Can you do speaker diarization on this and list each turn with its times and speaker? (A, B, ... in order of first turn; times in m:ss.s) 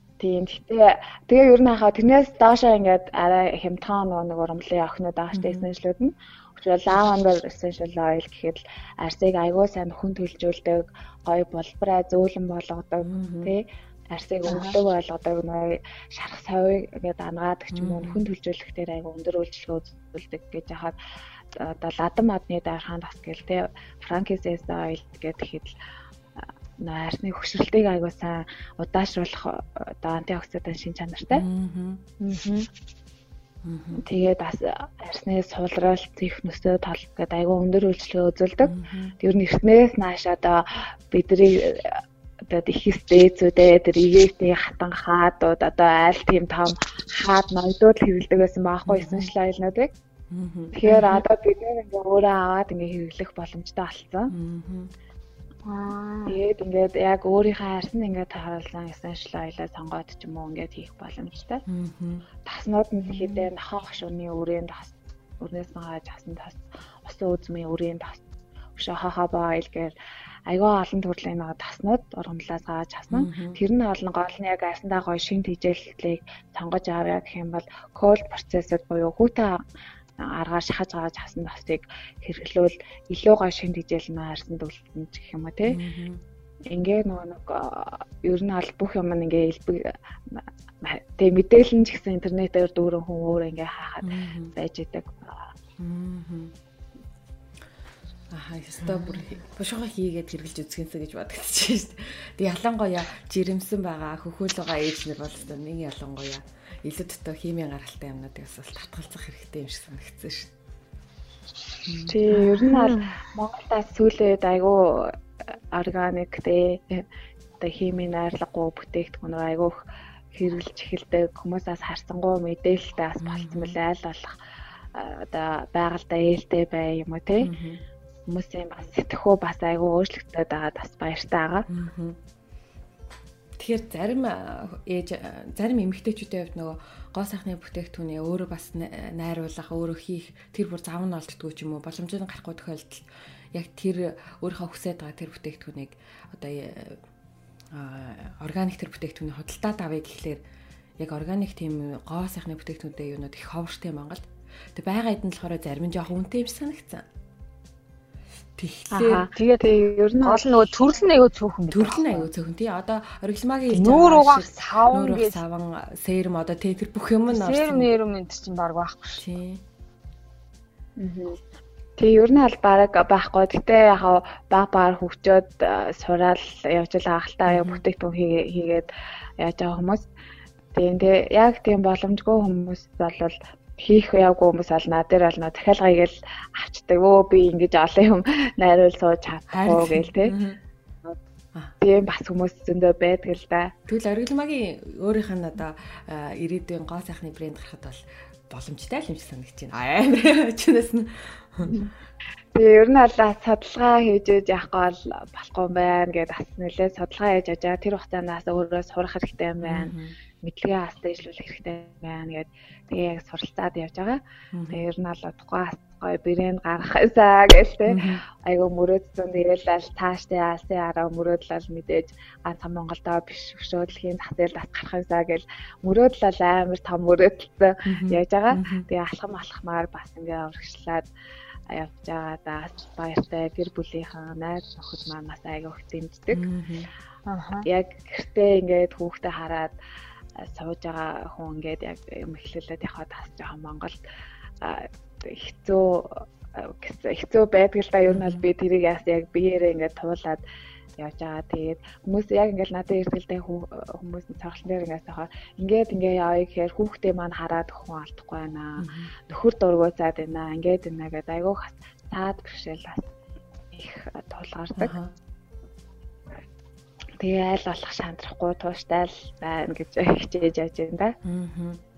0:00.2-0:21.0 A
0:05.3-0:05.7 B
0:13.0-0:13.5 B
0:14.5-0:14.7 C
0:17.7-0:18.2 B
0:21.6-0:25.8 A
0:26.8-0:31.4 A
0:31.3-0:32.0 B
0:32.2-0:32.7 C
0:33.6-0:34.0 B
0:34.0-0:49.9 A
0:38.6-0:39.1 B
0:48.9-0:49.3 B
0:50.3-0:50.7 B
0:50.7-0:54.3 A
0:50.9-0:51.2 C
0:54.3-0:54.9 B
0:55.6-0:56.4 C
0:56.3-1:01.6 A
1:01.7-1:02.2 B
1:02.4-1:08.2 A
1:03.1-1:03.5 C
1:08.8-1:09.9 A
1:10.5-1:19.6 A
1:13.1-1:13.6 B
1:20.2-1:25.8 A
1:25.7-1:26.2 B
1:26.7-1:35.5 A
1:34.0-1:34.5 B
1:35.8-1:36.5 B
1:38.3-1:50.5 B
1:51.9-1:52.2 B
1:52.1-1:55.2 A
1:52.3-1:53.1 C
1:55.7-1:57.0 A
1:57.6-1:59.7 A
2:00.3-2:04.4 A
2:03.2-2:03.8 B
2:04.9-2:07.5 A
2:07.4-2:07.8 B
2:08.3-2:11.7 A
2:11.7-2:12.2 B
2:13.6-2:27.0 B
2:27.7-2:30.4 B
2:31.0-2:37.0 B
2:38.6-2:39.3 B
2:38.9-2:40.7 A
2:39.3-2:39.7 C
2:40.2-2:42.3 C
2:41.7-2:47.9 B
2:43.7-2:45.4 C
2:47.3-2:49.2 C
2:49.2-2:49.6 B
2:51.0-2:51.4 A
2:52.0-2:58.9 A
2:57.5-2:57.8 B
2:59.4-3:00.1 A
3:00.7-3:10.4 A
3:09.5-3:10.6 B
3:11.8-3:13.7 A
3:13.9-3:21.8 B
3:22.5-3:34.2 A
3:29.6-3:30.2 B
3:34.5-3:34.9 B
3:34.7-3:51.1 A
3:37.9-3:38.2 B
3:47.9-3:48.9 B
3:51.7-3:56.5 A
3:56.3-3:56.9 B
3:57.2-3:57.6 C
3:57.6-3:59.7 A
4:00.4-4:04.0 A
4:04.6-4:10.4 A
4:08.1-4:08.4 B
4:11.0-4:23.1 A
4:18.8-4:19.1 B
4:23.7-4:24.9 A
4:24.8-4:25.1 B
4:27.2-4:31.2 A
4:31.2-4:31.8 B